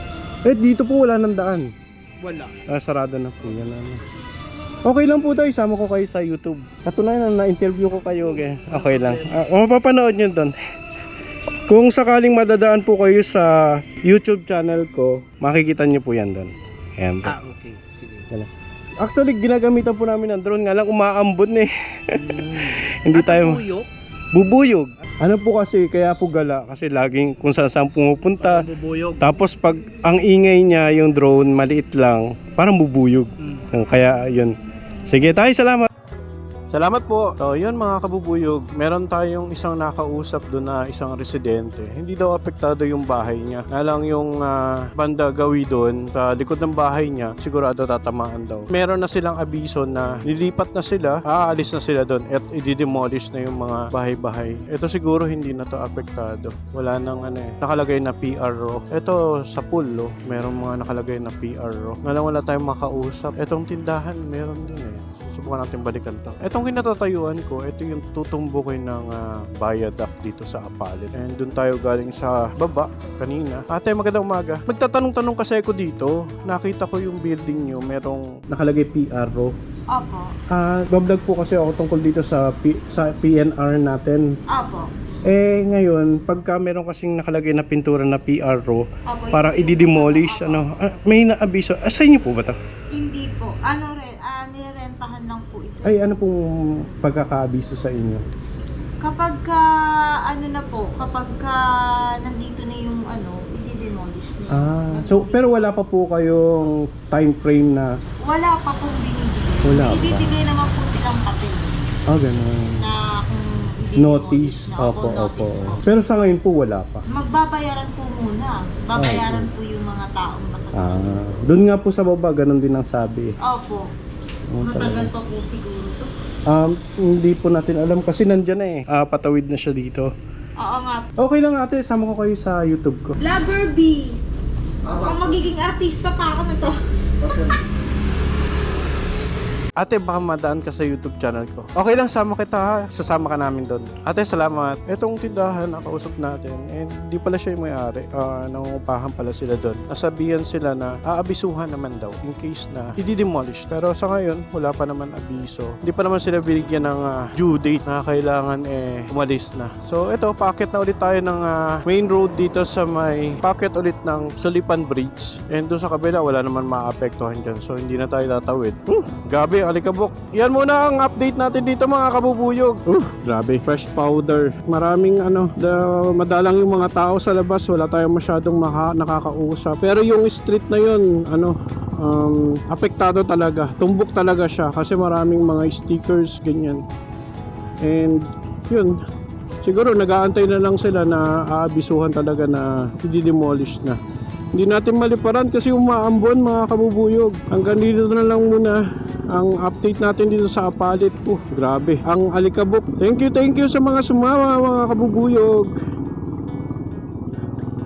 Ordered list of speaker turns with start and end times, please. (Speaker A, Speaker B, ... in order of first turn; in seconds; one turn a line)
Speaker A: 0.5-1.7
Speaker B: 2.2-2.5
Speaker A: 2.7-4.0
Speaker A: 4.9-10.5
Speaker B: 8.5-9.3
Speaker A: 11.7-17.4
Speaker B: 17.2-18.3
Speaker A: 19.0-23.6
Speaker B: 22.1-23.9
Speaker A: 24.3-28.6
Speaker B: 28.4-29.3
Speaker A: 29.2-34.5
Speaker A: 35.1-35.9
Speaker A: 36.7-79.5
Speaker C: 79.9-80.3
Speaker A: 80.5-84.3
Speaker C: 84.5-84.9
Speaker A: 85.3-92.6
Speaker C: 89.1-91.0
Speaker C: 93.0-96.0
Speaker A: 95.8-98.2
Speaker C: 99.0-99.7
Speaker C: 100.2-105.5
Speaker A: 104.5-107.9
Speaker C: 108.2-111.7
Speaker A: 109.6-110.4
Speaker A: 112.1-112.9
Speaker C: 112.8-115.8
Speaker A: 114.0-117.0
Speaker C: 117.1-121.1
Speaker A: 119.0-119.5
Speaker A: 120.8-123.3
Speaker C: 123.5-123.9
Speaker A: 124.5-125.1
Speaker C: 124.6-126.1
Speaker A: 126.5-130.1
Speaker C: 130.6-131.1
Speaker A: 131.2-133.2
Speaker C: 133.2-134.2
Speaker C: 134.9-136.8
Speaker A: 139.8-186.8
Speaker A: 187.8-188.9
Speaker A: 189.6-194.0
Speaker A: 194.6-198.8
Speaker A: 199.3-205.7